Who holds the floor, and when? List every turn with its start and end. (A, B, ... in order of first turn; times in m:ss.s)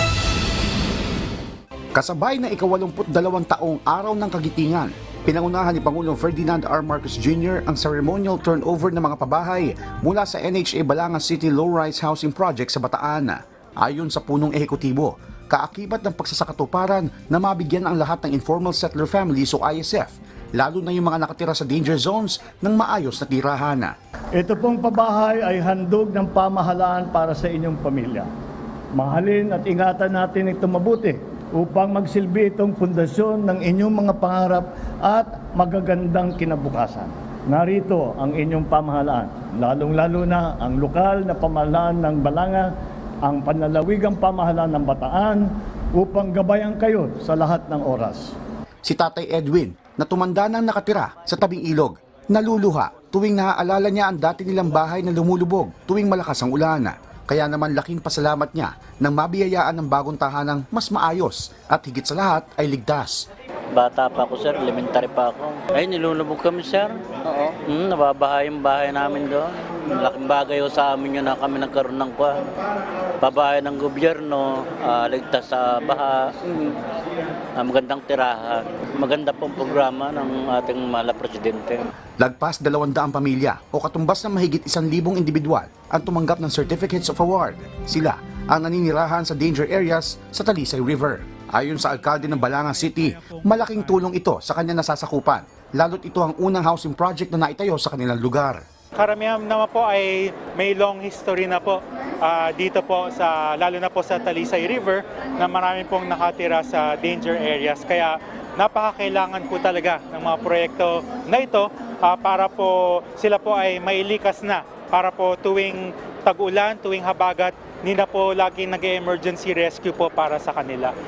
0:02.0-0:23.9 A
0:24.3-0:28.3 B
0:28.9-0:42.7 B
0:43.2-0:48.3 B
0:48.8-1:03.3 A
1:03.7-1:12.5 C
1:13.2-1:16.8 C
1:17.6-1:21.9 C
1:22.2-1:38.6 A
1:32.2-1:33.9 D
1:39.0-2:00.9 D